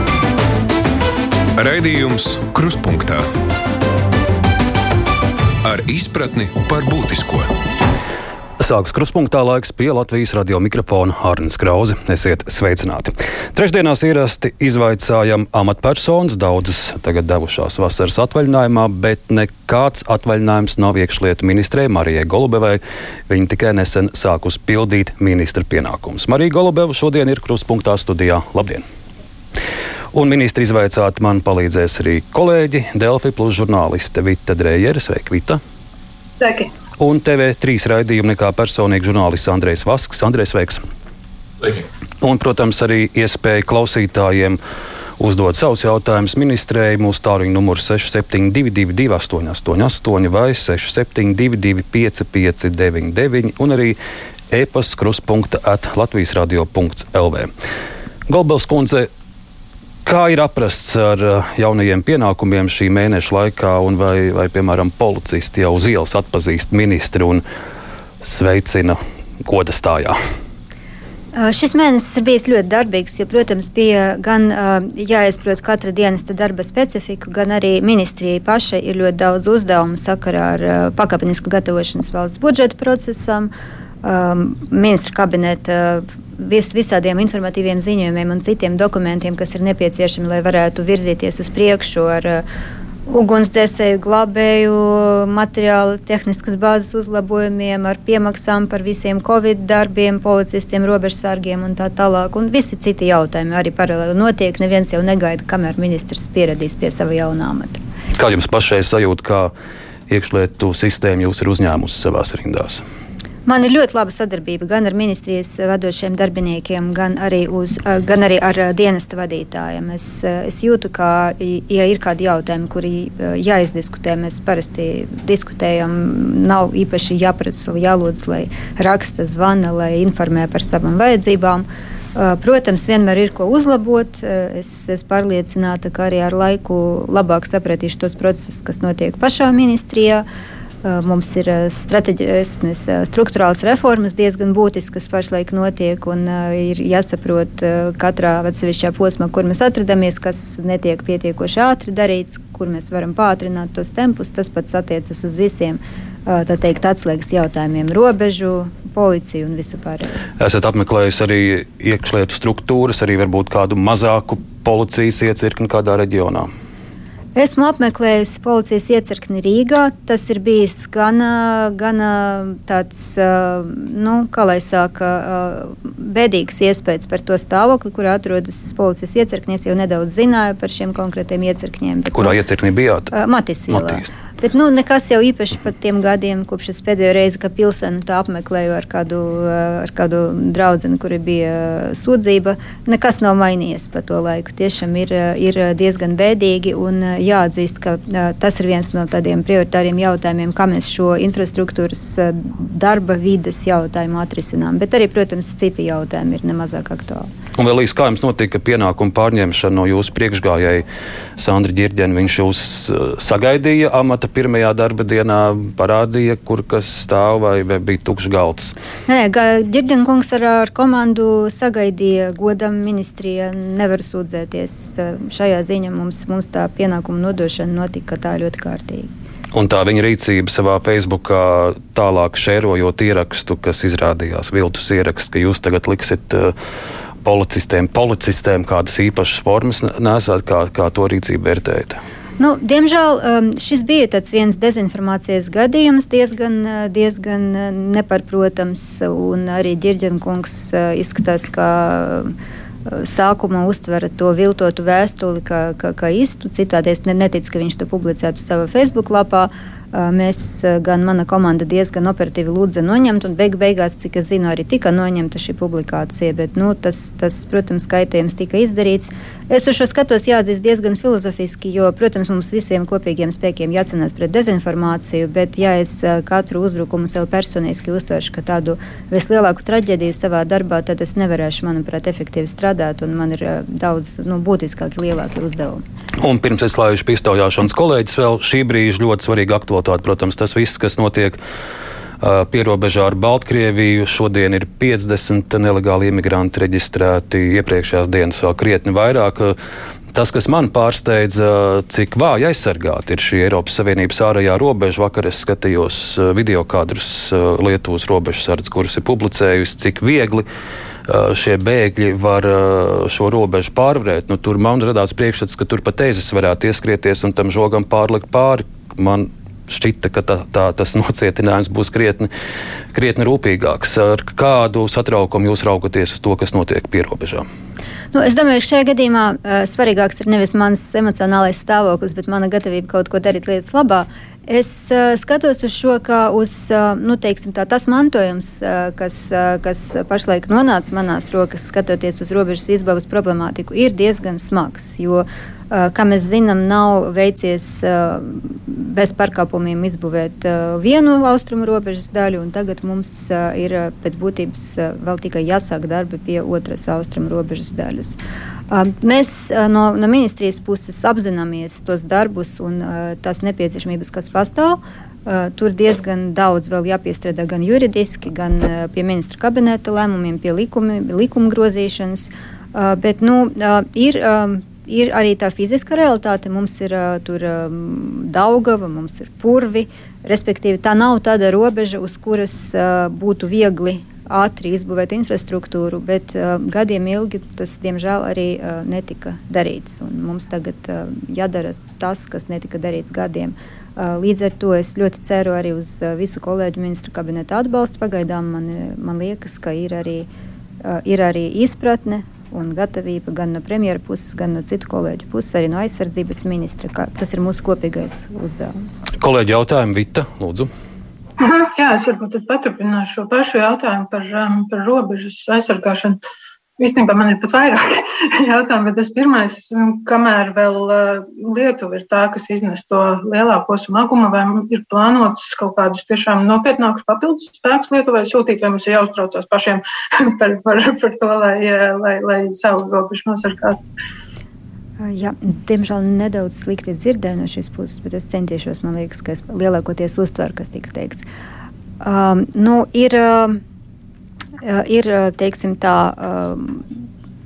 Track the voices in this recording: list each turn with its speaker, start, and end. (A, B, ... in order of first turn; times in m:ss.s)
0:01.6-0:03.3 A
0:05.6-0:07.5 A
0:08.6-0:28.8 B
0:30.1-0:35.6 B
0:36.4-0:36.7 C
0:37.0-0:40.8 B
0:42.2-0:44.6 B
0:45.2-0:54.0 B
0:54.5-0:57.5 B
0:58.3-0:59.1 B
1:00.0-1:07.4 B
1:08.2-1:10.2 B
1:11.3-1:23.5 D
1:24.0-1:32.4 D
1:33.1-1:47.8 D
1:48.1-1:49.5 B
1:50.1-1:52.8 B
1:53.5-2:20.2 D
2:20.8-2:40.2 D
2:40.4-2:46.5 B
2:47.4-3:02.4 D
3:02.1-3:03.1 B
3:03.1-3:27.3 D
3:03.7-3:04.1 B
3:27.6-3:30.9 B
3:31.4-3:38.7 B
3:39.1-3:49.1 D
3:49.5-3:56.6 B
3:57.2-4:02.0 B
4:02.4-4:12.3 D
4:12.9-4:45.8 D
4:46.2-4:51.4 B
4:52.2-4:59.6 B
5:00.1-5:10.5 B
5:11.1-5:22.3 B
5:22.9-5:27.4 B
5:28.1-5:58.2 D
5:58.7-6:40.3 D
6:40.8-6:49.0 D
6:49.2-6:50.7 B
6:51.4-6:56.2 C
6:56.8-7:13.8 C
7:15.0-7:21.2 D
7:22.0-7:23.6 D
7:24.6-7:27.0 D